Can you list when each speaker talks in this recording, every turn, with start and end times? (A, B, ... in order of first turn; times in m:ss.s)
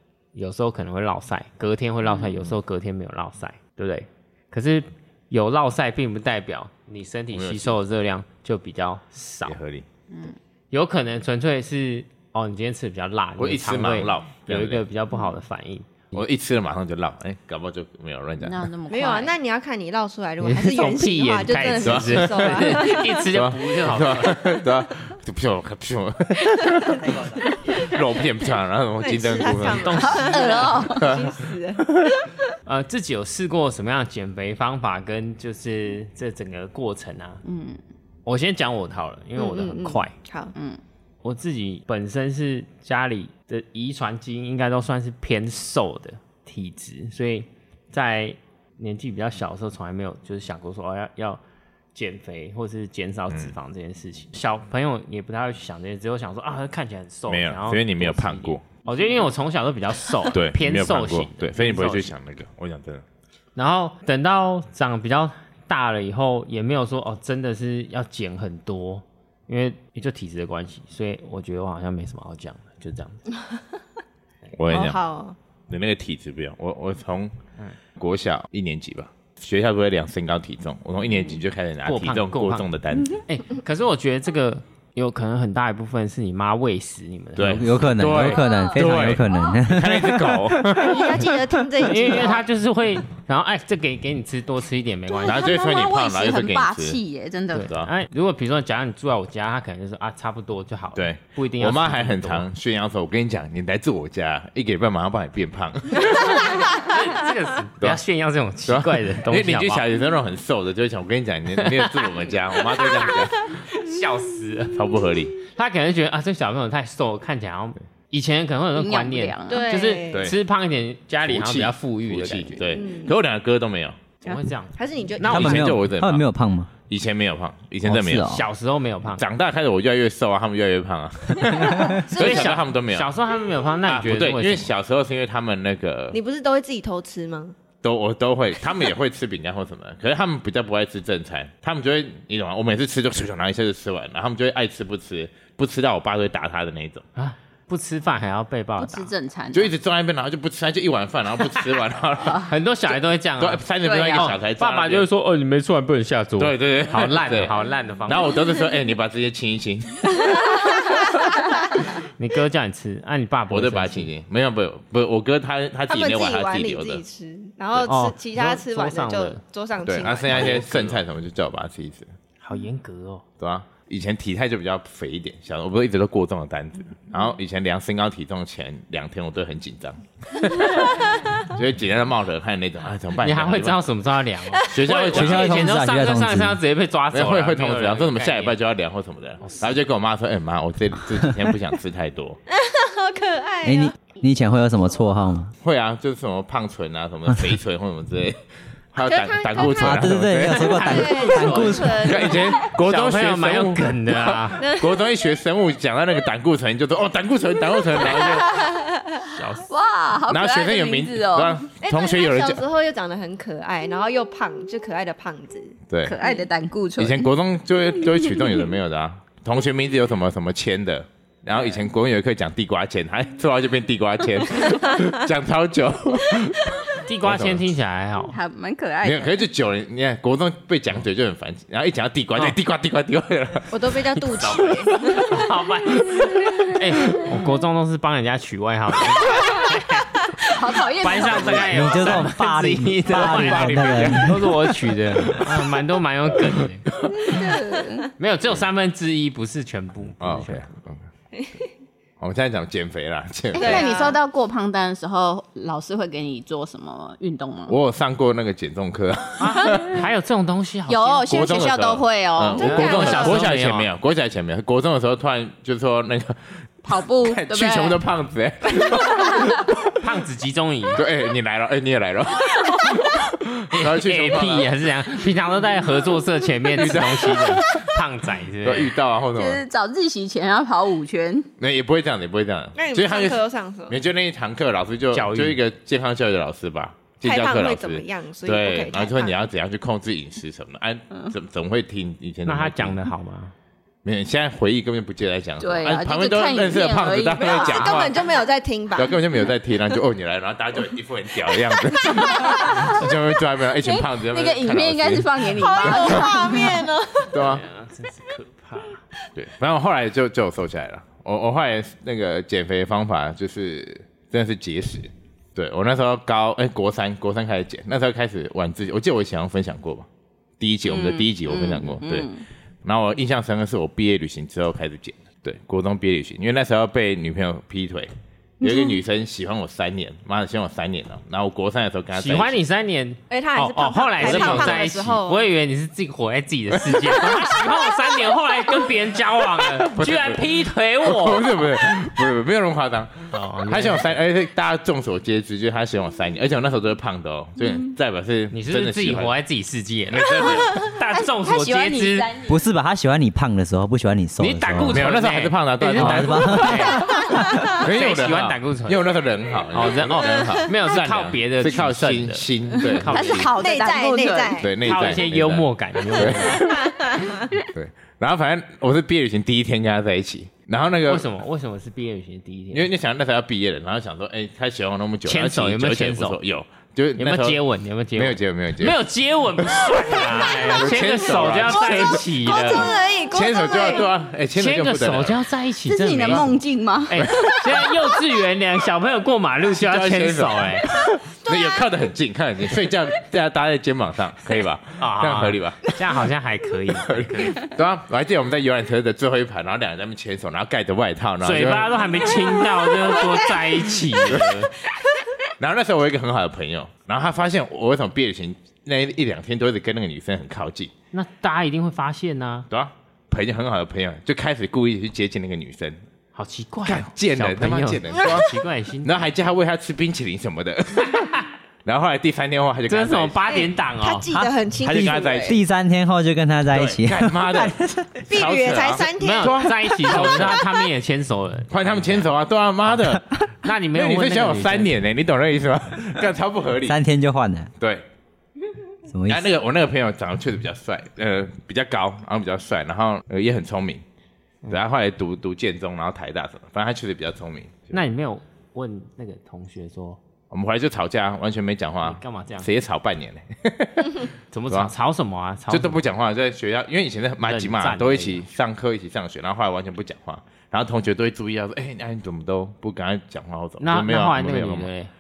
0:00.4-0:09.6 A
0:07.3-0:07.8 B
0:09.5-0:09.9 B
0:10.1-0:10.4 C
0:10.7-0:16.2 A
0:13.4-0:14.8 B
0:16.1-0:18.6 B
0:18.4-0:19.4 C
0:18.9-0:23.2 D
0:20.4-0:24.6 A
0:21.8-0:30.2 B
0:29.0-0:32.3 D
0:29.8-0:30.8 A
0:29.9-0:31.0 C
0:30.9-0:31.4 B
0:32.7-0:37.4 A
0:37.4-0:37.8 C
0:38.2-0:40.1 A
0:39.4-0:40.5 D
0:40.6-0:40.8 C
0:41.2-0:51.4 A
0:52.0-1:02.1 A
0:57.3-0:58.6 B
1:00.3-1:03.0 B
1:03.6-1:13.2 A
1:14.5-1:15.0 B
1:14.7-1:15.4 D
1:15.7-1:17.3 B
1:18.0-1:23.2 B
1:21.8-1:22.7 A
1:23.3-1:28.4 A
1:27.4-1:31.2 B
1:27.4-1:30.9 E
1:30.8-1:32.4 D
1:31.8-1:35.6 A
1:35.2-1:37.7 C
1:35.2-1:37.0 B
1:37.5-1:42.5 A
1:37.6-1:37.9 B
1:41.0-1:46.6 B
1:46.6-1:49.8 A
1:48.7-1:53.6 B
1:51.6-1:54.8 A
1:54.7-1:55.4 B
1:55.4-2:02.6 A
1:58.8-1:59.7 C
1:59.5-2:00.3 D
2:01.2-2:04.0 B
2:02.7-2:03.2 D
2:04.2-2:05.7 A
2:04.2-2:05.7 D
2:05.2-2:06.7 E
2:05.3-2:06.2 B
2:06.9-2:08.4 B
2:07.8-2:08.4 E
2:08.2-2:09.2 A
2:09.2-2:13.1 B
2:12.1-2:14.7 A
2:12.1-2:12.6 D
2:13.9-2:16.2 B
2:16.1-2:17.6 D
2:17.8-2:27.0 B
2:27.2-2:29.1 A
2:28.8-2:29.7 C
2:29.5-2:32.5 B
2:32.4-2:38.4 A
2:33.4-2:35.1 B
2:33.8-2:34.3 C
2:36.4-2:41.0 B
2:40.2-2:41.8 D
2:42.0-2:44.1 A
2:43.5-2:47.0 B
2:45.9-2:51.0 D
2:47.9-2:49.4 A
2:49.8-2:52.1 B
2:50.3-2:50.8 A
2:52.4-2:53.2 A
2:53.4-3:03.8 B
3:03.2-3:08.6 A
3:04.6-3:05.8 B
3:05.1-3:06.6 E
3:07.1-3:12.4 B
3:09.4-3:09.7 A
3:12.5-3:13.9 D
3:13.6-3:15.5 E
3:15.6-3:20.9 B
3:19.0-3:20.1 D
3:19.7-3:22.2 E
3:20.4-3:24.7 A
3:20.8-3:22.6 D
3:22.0-3:28.6 B
3:24.6-3:24.9 D
3:28.2-3:28.7 C
3:28.8-3:29.1 D
3:29.3-3:29.7 A
3:29.7-3:31.7 C
3:30.3-3:32.6 B
3:31.8-3:36.4 D
3:35.9-3:36.2 B
3:36.0-3:37.3 C
3:37.0-3:47.7 B
3:38.1-3:38.6 C
3:47.1-3:48.4 A
3:48.3-3:49.4 C
3:49.0-3:55.3 B
3:53.7-3:55.4 D
3:55.3-4:00.1 A
3:56.0-3:56.7 B
4:00.5-4:01.9 C
4:00.9-4:06.9 A
4:01.7-4:04.4 E
4:02.0-4:02.2 B
4:03.1-4:04.7 B
4:06.9-4:07.4 B
4:07.1-4:08.1 C
4:08.2-4:10.7 A
4:10.2-4:11.0 B
4:11.3-4:11.7 D
4:12.2-4:13.9 B
4:13.5-4:14.2 D
4:13.5-4:17.8 C
4:17.7-4:20.0 B
4:19.4-4:21.7 A
4:20.9-4:23.0 C
4:21.3-4:26.4 B
4:22.5-4:23.4 D
4:22.6-4:23.9 A
4:26.8-4:28.0 C
4:27.2-4:29.9 B
4:29.0-4:29.6 C
4:30.0-4:31.0 A
4:31.0-4:34.7 B
4:33.7-4:38.9 A
4:36.8-4:37.8 B
4:38.6-4:39.6 B
4:39.3-4:41.5 C
4:41.6-4:53.0 B
4:42.8-4:44.0 D
4:45.1-4:45.6 A
4:47.2-4:49.4 D
4:52.4-4:53.5 A
4:54.0-4:58.2 B
4:55.6-4:58.0 C
4:57.4-4:59.2 D
4:59.0-5:05.5 B
5:02.1-5:02.9 D
5:02.2-5:03.0 C
5:03.8-5:06.9 C
5:05.5-5:07.4 D
5:07.3-5:07.6 B
5:07.4-5:09.0 A
5:09.4-5:20.1 B
5:20.6-5:22.3 B
5:20.9-5:22.4 C
5:22.8-5:32.6 B
5:28.6-5:29.0 C
5:32.2-5:41.5 A
5:33.3-5:35.5 D
5:34.2-5:35.0 B
5:36.9-5:37.6 B
5:39.6-5:40.4 B
5:41.0-5:49.3 B
5:43.3-5:44.2 A
5:48.5-5:52.4 A
5:50.1-5:50.8 B
5:51.1-5:52.6 C
5:52.5-5:55.0 E
5:54.4-5:59.0 A
5:54.5-5:57.1 B
5:56.0-5:57.2 E
5:57.6-6:03.5 B
5:59.7-6:03.5 A
6:03.0-6:04.6 C
6:03.6-6:05.2 D
6:04.6-6:06.9 B
6:04.8-6:06.7 A
6:06.4-6:07.5 D
6:07.6-6:11.3 B
6:11.1-6:12.9 A
6:12.7-6:17.6 B
6:15.2-6:16.4 A
6:17.2-6:22.9 A
6:18.2-6:19.0 B
6:19.6-6:25.4 B
6:21.7-6:24.1 D
6:24.6-6:26.6 A
6:25.9-6:27.7 C
6:27.1-6:30.9 A
6:27.2-6:27.5 B
6:29.7-6:36.0 B
6:31.5-6:31.8 D
6:35.0-6:37.7 A
6:37.0-6:42.4 B
6:41.4-6:44.7 A
6:44.3-6:44.6 B
6:45.6-6:50.9 B
6:51.1-6:52.7 A
6:52.7-6:56.0 B
6:56.4-6:59.2 A
6:56.9-6:58.5 B
6:59.0-7:01.3 B
7:01.0-7:01.5 A
7:01.8-7:03.4 B
7:02.9-7:04.3 A
7:03.5-7:05.6 D
7:04.3-7:08.1 E
7:04.8-7:05.6 B
7:06.7-7:10.6 B
7:08.3-7:10.7 D
7:09.2-7:12.3 A
7:11.7-7:17.0 B
7:12.9-7:15.0 A
7:16.9-7:17.7 E
7:17.8-7:18.0 B
7:19.1-7:19.5 E
7:19.3-7:24.0 B
7:24.7-7:27.9 B
7:27.9-7:30.2 A
7:30.5-7:34.9 B
7:32.0-7:32.7 A
7:34.5-7:36.0 A
7:35.7-7:44.9 B
7:37.5-7:38.4 A
7:43.8-7:45.1 A